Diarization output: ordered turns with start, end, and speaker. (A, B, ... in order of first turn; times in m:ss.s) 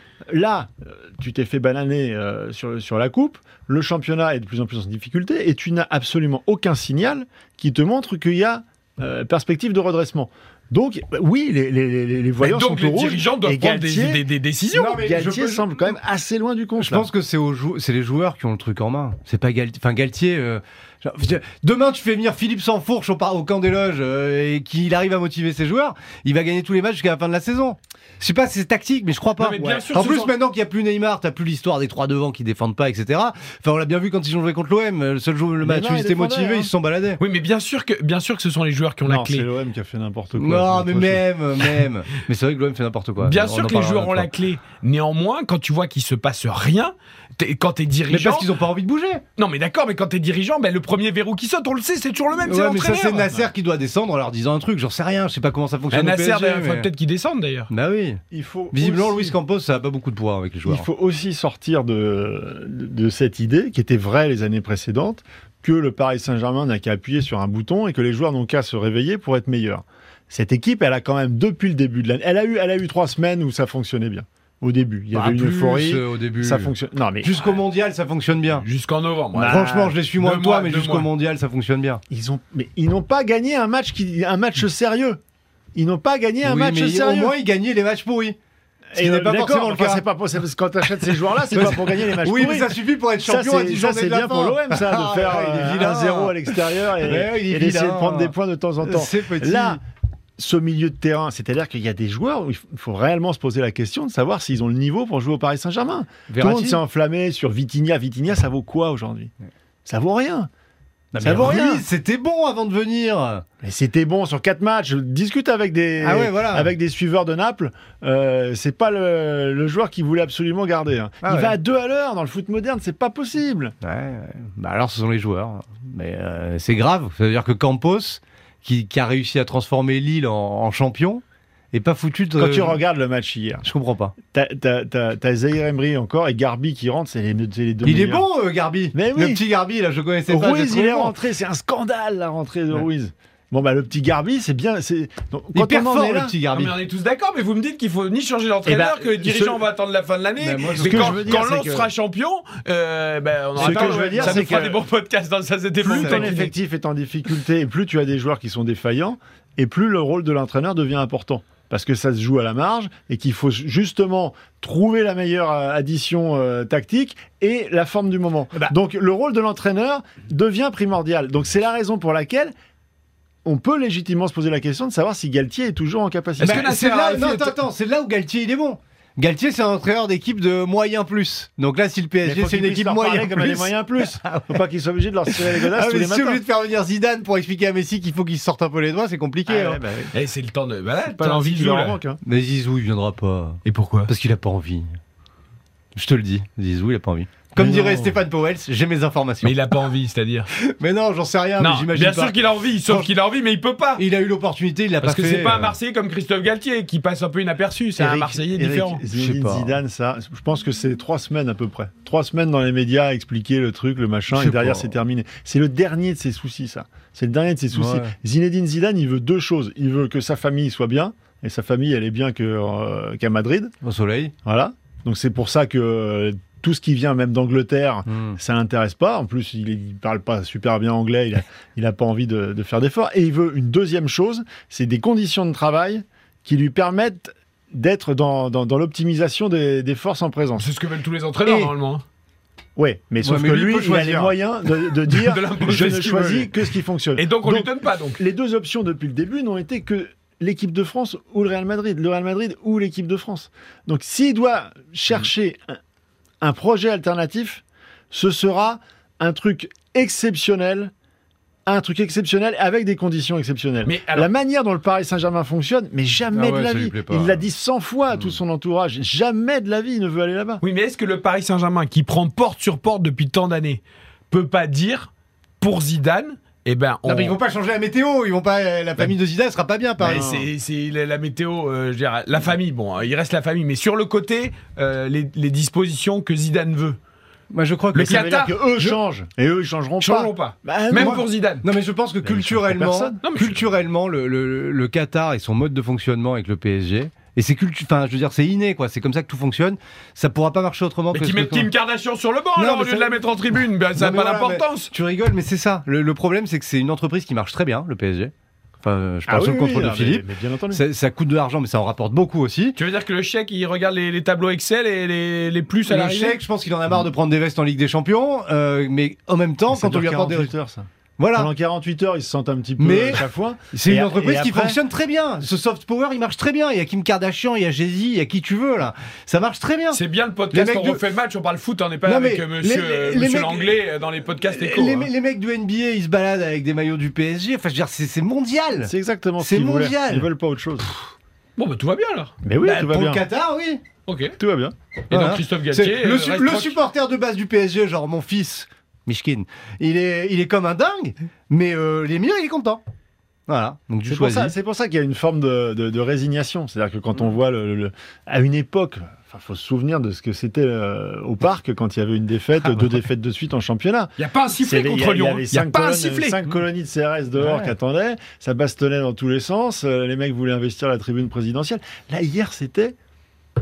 0:00.2-0:14.2 A
0:12.4-0:15.0 B
0:14.7-0:15.7 C
0:14.7-0:17.1 A
0:16.8-0:37.2 C
0:29.4-0:30.3 B
0:35.6-0:36.7 A
0:37.2-0:39.5 B
0:39.0-0:41.3 A
0:40.4-0:44.3 C
0:43.2-0:48.5 B
0:48.1-0:49.2 C
0:49.4-0:53.4 B
0:52.4-0:56.9 C
0:55.9-0:57.7 B
0:57.7-1:00.9 C
0:58.3-0:59.4 A
1:00.6-1:17.4 A
1:15.1-1:18.6 C
1:18.6-1:21.1 B
1:19.3-1:20.0 A
1:19.4-1:22.0 C
1:22.1-1:25.2 A
1:25.7-1:27.3 A
1:26.4-1:28.4 C
1:28.9-1:39.8 A
1:29.0-1:30.0 C
1:31.5-1:39.8 C
1:40.4-1:49.3 A
1:46.3-1:46.8 C
1:49.8-1:50.5 A
1:51.1-1:53.4 C
1:51.2-1:51.8 A
1:53.6-2:03.7 A
1:56.0-1:56.7 C
2:01.2-2:01.5 C
2:03.8-2:12.8 C
2:12.4-2:13.7 A
2:13.6-2:14.1 C
2:14.2-2:18.2 A
2:17.8-2:21.1 C
2:18.9-2:19.4 A
2:20.3-2:26.4 A
2:25.5-2:26.7 C
2:26.5-2:36.5 B
2:28.6-2:29.6 A
2:30.4-2:31.4 C
2:30.8-2:31.9 A
2:33.6-2:34.6 C
2:33.6-2:34.8 A
2:35.8-2:52.5 A
2:35.8-2:36.4 C
2:53.4-2:56.7 A
2:56.4-2:57.5 B
2:56.4-3:04.5 C
3:02.2-3:06.4 A
3:05.3-3:09.8 C
3:09.4-3:10.1 A
3:10.1-3:12.0 B
3:11.1-3:12.2 A
3:12.2-3:15.0 C
3:13.6-3:14.1 B
3:15.9-3:19.5 C
3:17.6-3:18.2 A
3:19.4-3:20.5 B
3:20.6-3:23.1 C
3:21.6-3:24.0 B
3:24.0-3:25.7 C
3:25.0-3:29.0 B
3:28.0-3:43.7 A
3:29.1-3:29.7 C
3:34.3-3:34.9 C
3:37.7-3:38.1 C
3:43.8-3:44.3 C
3:44.4-4:00.7 A
3:48.1-3:48.4 C
4:00.6-4:02.0 B
4:02.8-4:15.8 A
4:03.2-4:04.4 C
4:05.1-4:06.6 B
4:07.2-4:08.2 B
4:16.4-4:20.9 A
4:21.6-4:30.6 A
4:23.8-4:24.3 B
4:26.3-4:27.4 C
4:30.6-4:37.4 B
4:37.0-4:40.3 C
4:40.0-4:40.5 A
4:40.0-4:47.0 B
4:47.5-4:48.3 C
4:47.9-4:48.7 B
4:48.0-4:51.3 A
4:50.0-4:51.6 B
4:50.9-5:01.7 C
4:52.2-4:53.2 A
4:53.2-4:53.6 B
5:01.1-5:04.9 B
5:02.6-5:03.2 C
5:03.9-5:12.8 C
5:09.3-5:10.8 A
5:12.8-5:16.4 B
5:15.9-5:20.5 C
5:19.7-5:24.8 A
5:21.2-5:21.5 C
5:22.8-5:31.0 C
5:29.9-5:35.1 B
5:32.0-5:33.8 C
5:34.4-5:40.3 C
5:38.8-5:40.9 A
5:41.6-5:42.3 B
5:42.4-5:43.2 A
5:42.6-5:43.8 C
5:44.1-5:44.4 B
5:44.4-5:44.7 A
5:45.1-5:46.8 B
5:45.1-5:52.8 C
5:53.5-5:54.5 C
5:54.1-6:13.0 A
6:04.2-6:06.4 B
6:07.4-6:07.7 C